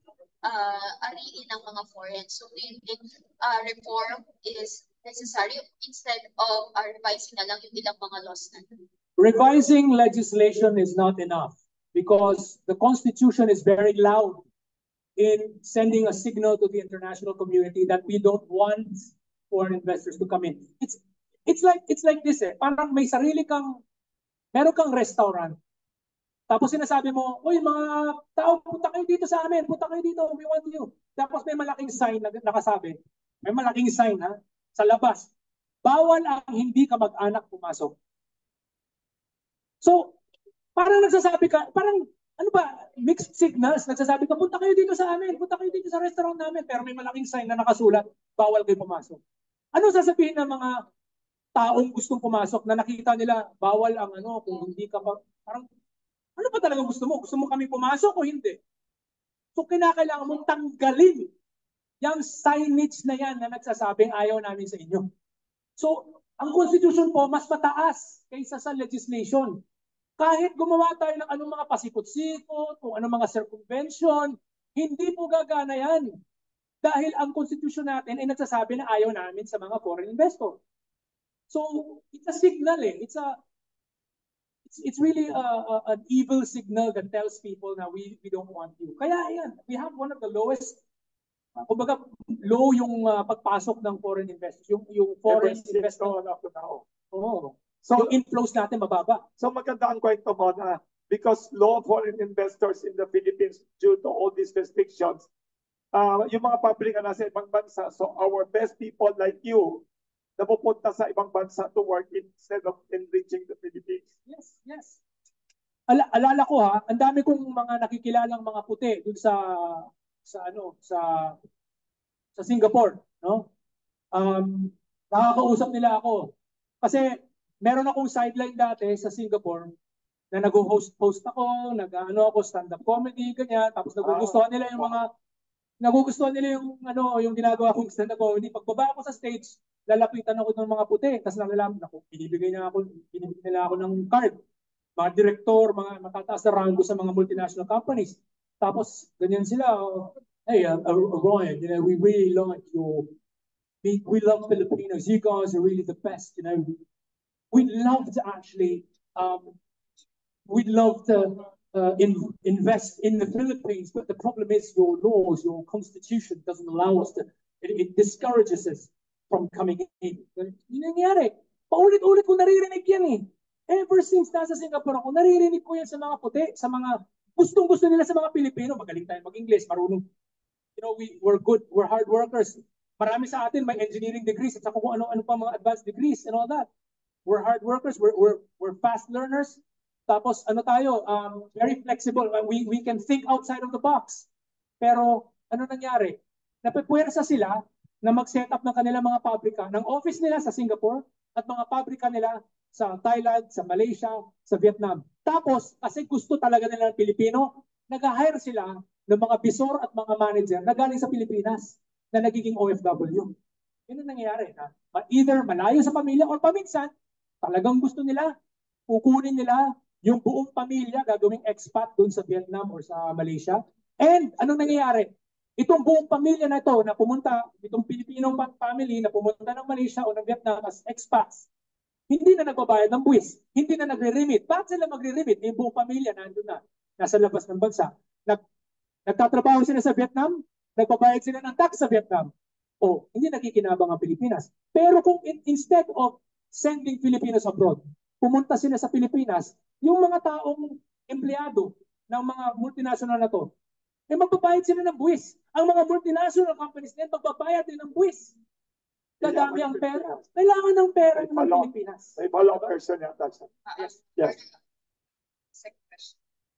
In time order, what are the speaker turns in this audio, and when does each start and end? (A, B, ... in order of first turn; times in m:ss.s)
0:00.4-0:08.7 A
0:09.2-0:14.4 B
0:15.2-0:23.8 B
0:24.5-0:25.6 B
0:26.5-0:35.3 B
0:35.8-0:38.0 B
0:39.8-0:40.2 B
0:40.8-0:49.2 B
0:49.7-0:50.8 B
0:51.6-0:55.7 B
0:56.4-0:58.6 B
0:59.6-1:01.3 B
1:02.0-1:05.1 B
1:05.8-1:09.6 B
1:10.2-1:16.2 B
1:16.8-1:20.6 B
1:21.5-1:23.4 B
1:24.7-1:30.8 B
1:31.7-1:36.2 B
1:35.3-1:36.8 C
1:37.1-1:39.2 B
1:37.8-1:38.2 C
1:39.4-1:45.3 C
1:45.9-1:49.8 C
1:50.4-1:54.1 C
1:54.3-1:55.0 B
1:55.9-2:01.4 B
2:02.4-2:03.5 B
2:04.1-2:09.7 B
2:10.3-2:15.1 B
2:14.0-2:14.9 C
2:15.8-2:24.4 B
2:25.0-2:33.2 B
2:33.8-2:36.8 B
2:37.5-2:39.6 B
2:40.5-3:00.1 B
3:00.8-3:06.7 B
3:07.3-3:14.3 B
3:14.8-3:33.4 B
3:33.9-3:38.3 B
3:38.9-3:51.5 B
3:52.1-3:58.4 B
3:59.1-4:13.5 B
4:14.1-4:18.4 B
4:19.2-4:20.2 C
4:19.2-4:22.2 B
4:21.2-4:23.5 C
4:23.7-4:24.6 A
4:25.5-4:26.2 A